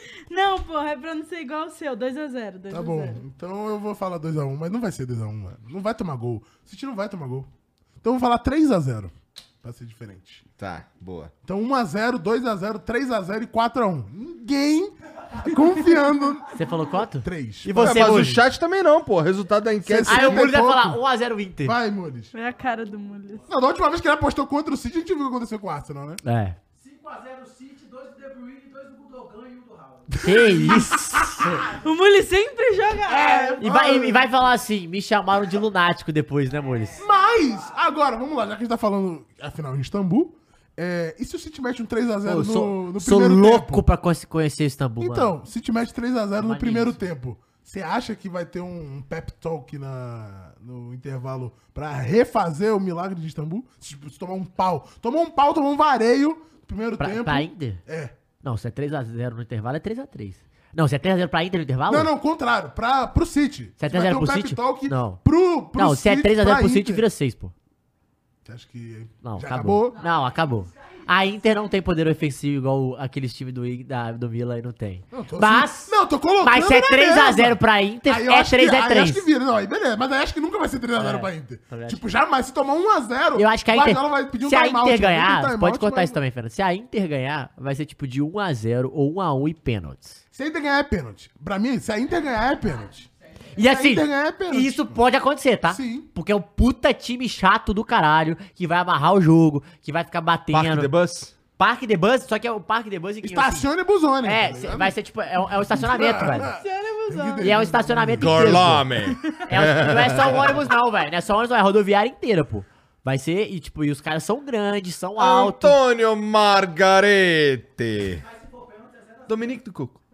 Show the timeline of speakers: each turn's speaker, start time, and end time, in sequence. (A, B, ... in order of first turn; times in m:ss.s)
0:00.3-0:03.2 A
0:02.7-0:07.5 B
0:08.0-0:10.4 B
0:10.6-0:11.3 C
0:11.4-0:16.6 B
0:16.5-0:18.4 D
0:17.2-0:18.4 B
0:17.7-0:20.5 C
0:19.8-0:21.0 B
0:20.0-0:21.8 D
0:21.6-0:22.3 B
0:22.3-0:23.4 A
0:23.5-0:26.2 B
0:26.2-0:26.6 D
0:26.7-0:30.8 E
0:30.2-0:31.0 B
0:30.2-0:31.7 D
0:31.7-0:33.6 A
0:33.1-0:34.3 B
0:33.6-0:37.0 D
0:36.5-0:37.8 E
0:37.0-0:43.8 B
0:42.2-0:45.3 D
0:45.0-0:58.1 B
0:46.4-0:47.0 D
0:57.0-0:57.8 D
0:58.4-1:02.1 D
1:01.9-1:07.0 B
1:03.8-1:05.2 D
1:05.7-1:07.5 D
1:08.4-1:10.0 B
1:09.2-1:19.3 D
1:09.9-1:11.8 E
1:15.1-1:26.2 B
1:21.0-1:22.0 D
1:23.4-1:30.2 D
1:30.3-1:33.1 B
1:32.6-1:33.5 E
1:33.6-1:40.9 D
1:33.6-1:35.0 B
1:35.7-1:36.1 B
1:40.5-1:41.3 C
1:41.6-1:43.7 D
1:43.2-1:48.8 B
1:44.2-1:46.5 D
1:46.3-1:47.6 A
1:47.4-1:48.9 D
1:48.2-1:50.6 C
1:49.0-1:49.4 A
1:49.4-1:55.8 D
1:55.2-1:58.2 C
1:58.1-1:59.6 E
1:59.3-2:00.0 C